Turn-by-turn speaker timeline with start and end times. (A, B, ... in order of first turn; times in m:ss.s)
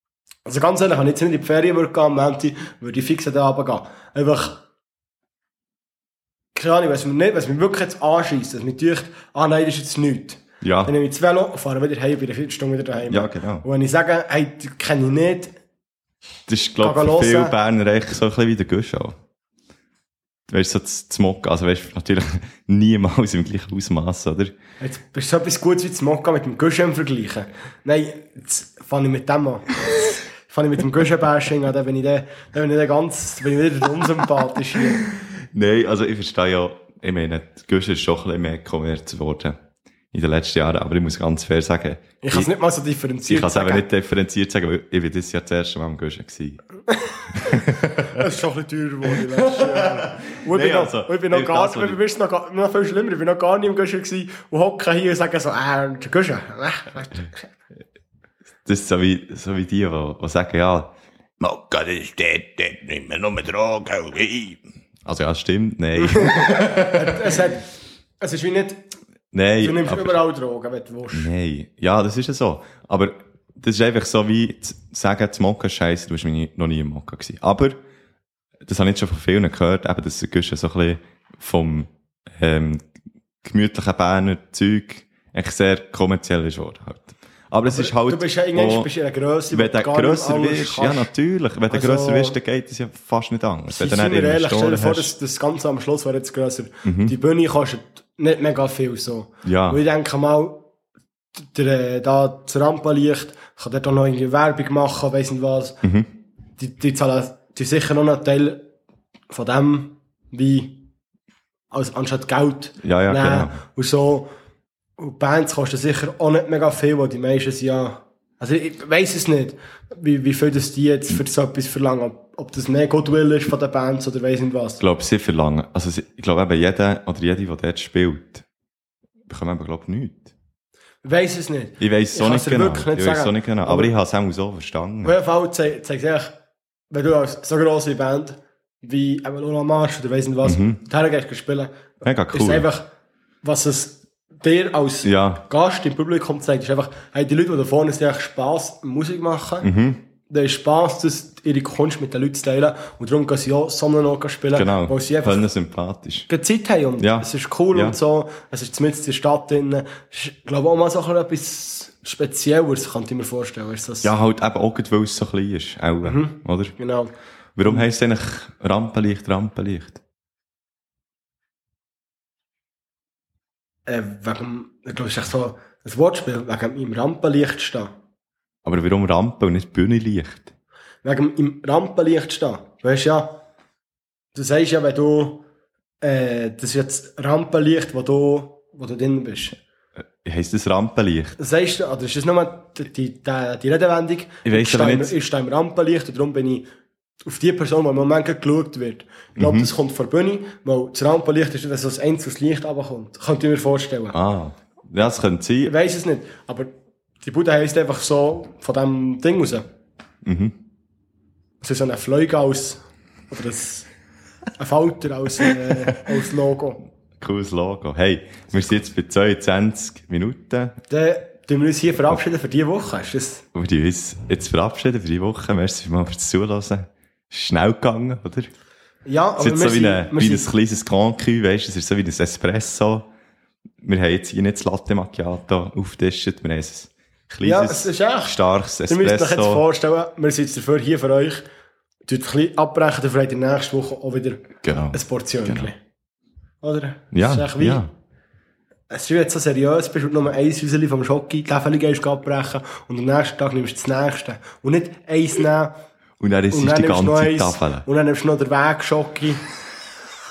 0:00.5-0:04.6 A
0:06.6-0:15.6 A
0:10.6-0:10.9 B
0:13.1-0:13.7 B
0:16.5-0:19.2 B
0:16.8-0:17.6 A
0:20.5-0:24.5 B
0:24.8-0:35.0 A
0:35.5-0:39.6 B
0:40.1-0:42.5 B
0:42.2-0:43.8 A
0:43.3-0:46.6 B
0:46.9-0:57.5 A
0:47.3-0:48.2 B
0:49.2-0:52.0 B
0:58.7-1:07.3 B
1:06.0-1:07.7 A
1:08.2-1:08.8 A
1:09.3-1:10.2 B
1:09.6-1:11.3 A
1:11.1-1:17.8 B
1:18.7-1:22.8 B
1:23.4-1:28.9 B
1:27.7-1:31.1 A
1:29.5-1:35.1 B
1:31.7-1:32.4 A
1:33.7-1:40.6 A
1:36.8-1:37.2 B
1:39.4-1:39.8 B
1:41.4-1:45.8 A
1:45.8-1:46.1 B
1:46.6-1:48.6 A
1:49.3-1:50.9 A
1:51.7-1:54.3 A
1:52.8-1:53.6 B
1:55.0-2:04.8 A
2:04.8-2:08.4 B
2:09.3-2:10.3 B
2:11.0-2:13.9 A
2:11.8-2:15.2 B
2:15.0-2:16.3 A
2:16.9-2:22.9 A
2:20.4-2:20.8 B
2:22.0-2:22.7 B
2:23.4-2:29.7 A
2:25.0-2:25.4 B
2:29.6-2:30.0 B
2:30.3-2:35.5 A
2:34.6-2:36.3 B
2:36.3-2:44.1 A
2:37.0-2:38.0 B
2:44.0-2:46.8 B
2:46.0-2:47.1 A
2:47.6-2:50.0 B
2:53.9-2:57.9 A
2:58.6-3:00.5 B
3:01.0-3:03.4 A
3:04.3-3:05.4 A
3:06.0-3:09.6 A
3:10.2-3:11.4 B
3:11.4-3:16.6 A
3:14.4-3:15.1 B
3:17.2-3:24.2 A
3:19.4-3:19.7 B
3:24.1-3:25.7 B
3:25.7-3:26.7 A
3:27.2-3:29.6 A
3:30.2-3:30.6 B
3:31.6-3:33.9 A
3:34.6-3:36.8 A
3:37.2-3:40.8 B
3:40.9-3:43.4 A
3:43.5-3:48.5 B
3:49.1-3:50.5 A
3:49.4-3:53.1 B
3:53.8-3:59.6 B
3:57.4-4:01.4 A
4:02.1-4:05.8 A
4:04.6-4:05.7 B
4:06.6-4:07.8 A
4:07.1-4:07.9 B
4:08.9-4:15.8 A
4:16.2-4:17.9 B
4:16.5-4:19.4 A